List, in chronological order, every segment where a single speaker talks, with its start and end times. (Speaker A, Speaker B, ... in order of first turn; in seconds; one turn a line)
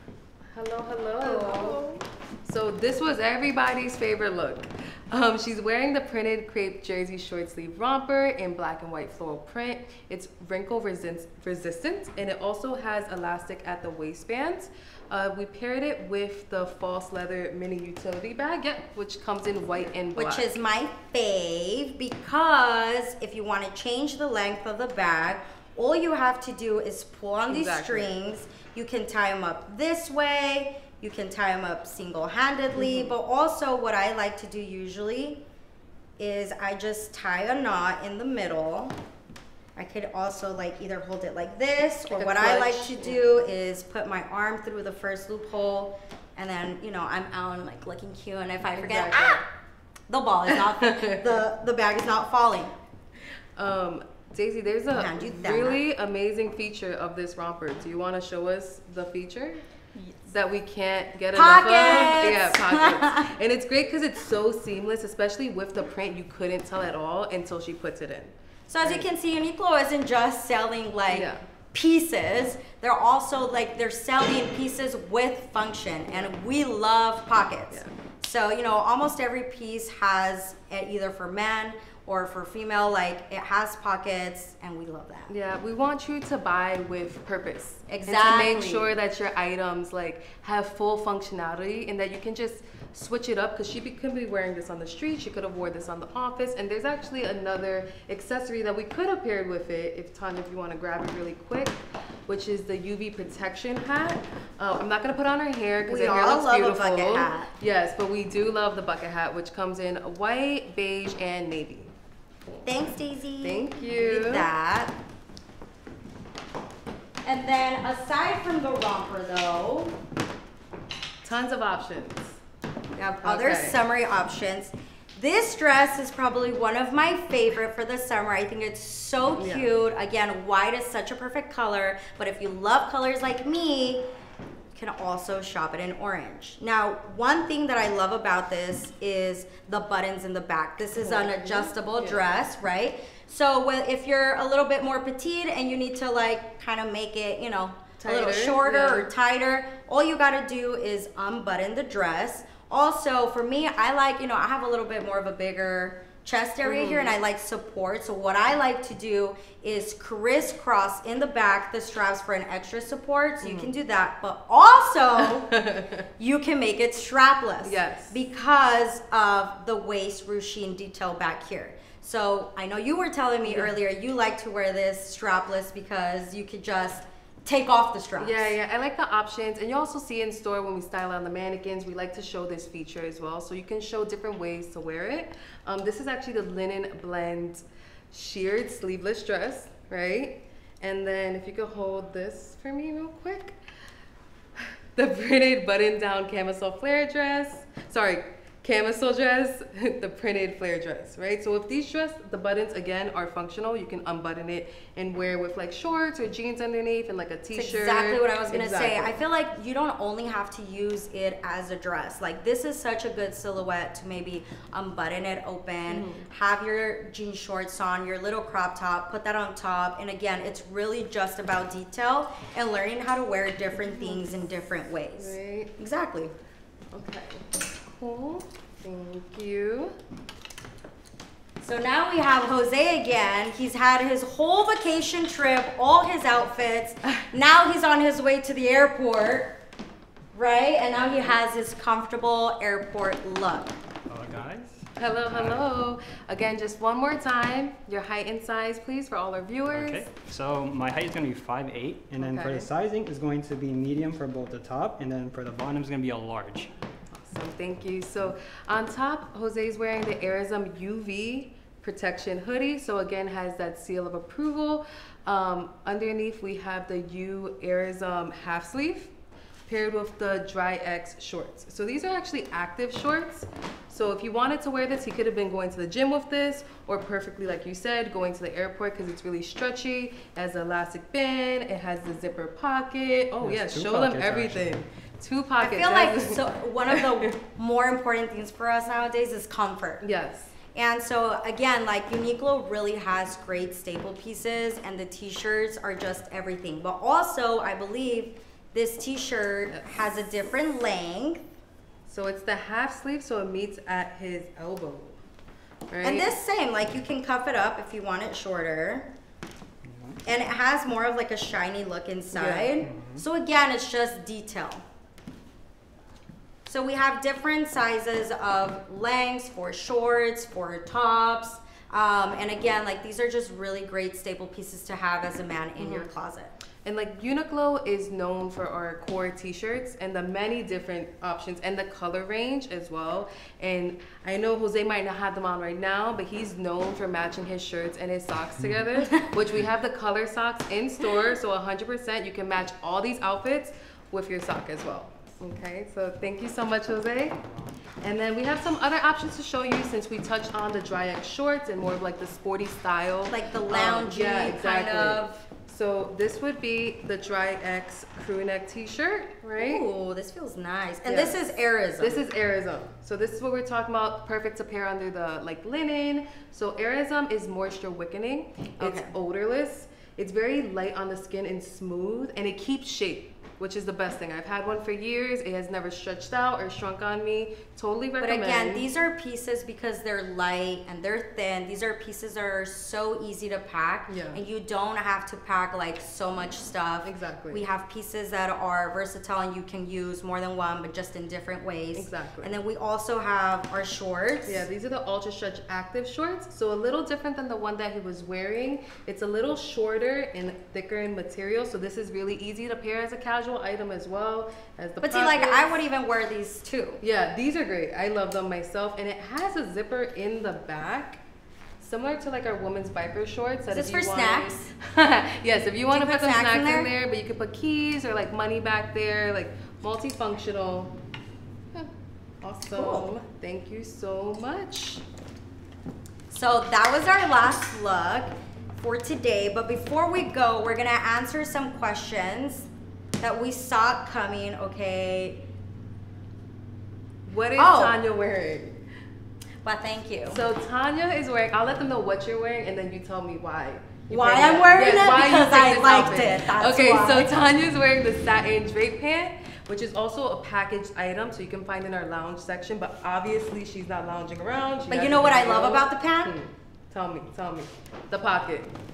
Speaker A: 0.5-20.5
Speaker B: 1.2-1.8
Speaker B: 20.1-35.4
Speaker A: 27.5-28.1
Speaker A: 32.8-33.1
Speaker B: 36.2-39.0
Speaker B: 39.8-49.4
Speaker A: 42.1-43.2
Speaker A: 48.8-49.4
Speaker B: 50.1-52.7
Speaker A: 50.5-51.4
Speaker A: 53.6-59.6
Speaker B: 54.9-55.8
Speaker A: 60.2-69.1
Speaker B: 61.3-63.3
Speaker B: 68.7-85.3
Speaker A: 71.1-71.4
Speaker A: 76.1-76.3
Speaker A: 85.3-111.9
Speaker B: 87.9-88.9
Speaker B: 105.9-107.5
Speaker B: 112.6-115.0
Speaker A: 113.4-114.5
Speaker B: 117.2-120.0
Speaker A: 121.2-122.4
Speaker B: 123.0-134.1
Speaker A: 123.2-123.8
Speaker A: 129.4-129.7
Speaker B: 134.7-165.5
Speaker A: 141.0-142.3
Speaker A: 148.0-149.1
Speaker A: 156.7-157.2
Speaker A: 163.4-163.7
Speaker A: 165.2-166.1
Speaker B: 166.2-178.5
Speaker A: 167.6-168.2
Speaker A: 173.4-173.8
Speaker A: 178.2-193.6
Speaker A: 194.6-209.2
Speaker B: 207.5-226.3
Speaker A: 215.9-216.3
Speaker A: 223.8-224.4
Speaker A: 225.2-225.7
Speaker A: 226.9-229.9
Speaker B: 231.6-239.6
Speaker B: 240.3-243.8
Speaker C: 244.1-245.6
Speaker A: 245.0-250.1
Speaker C: 249.7-256.7
Speaker A: 252.2-252.7
Speaker A: 257.1-269.1
Speaker A: 269.7-287.4
Speaker C: 283.4-284.7
Speaker B: 285.6-290.0
Speaker A: 290.0-290.5
Speaker B: 290.7-301.5
Speaker A: 302.1-305.2
Speaker A: 305.9-306.3
Speaker B: 306.0-309.1
Speaker C: 309.9-310.2
Speaker B: 310.2-314.8
Speaker A: 312.3-312.8
Speaker C: 312.8-313.2
Speaker B: 316.7-326.5
Speaker A: 325.8-326.1
Speaker A: 326.8-347.4
Speaker B: 339.0-339.3
Speaker A: 348.0-359.9
Speaker B: 353.3-355.4
Speaker B: 359.6-362.2
Speaker A: 361.1-361.4
Speaker A: 362.0-378.9
Speaker B: 368.8-369.1
Speaker B: 378.2-394.7
Speaker A: 384.1-384.4
Speaker A: 387.0-387.6
Speaker A: 391.9-392.5
Speaker A: 394.4-405.8
Speaker B: 405.0-407.0
Speaker A: 407.0-411.2
Speaker A: 411.8-421.0
Speaker B: 413.7-414.7
Speaker B: 415.9-416.9
Speaker A: 421.7-425.1
Speaker B: 422.8-423.1
Speaker B: 426.3-432.7
Speaker B: 433.2-435.4
Speaker A: 437.3-438.8
Speaker B: 437.6-438.0
Speaker B: 439.6-440.4
Speaker A: 440.3-458.7
Speaker B: 444.1-447.3
Speaker B: 454.9-456.4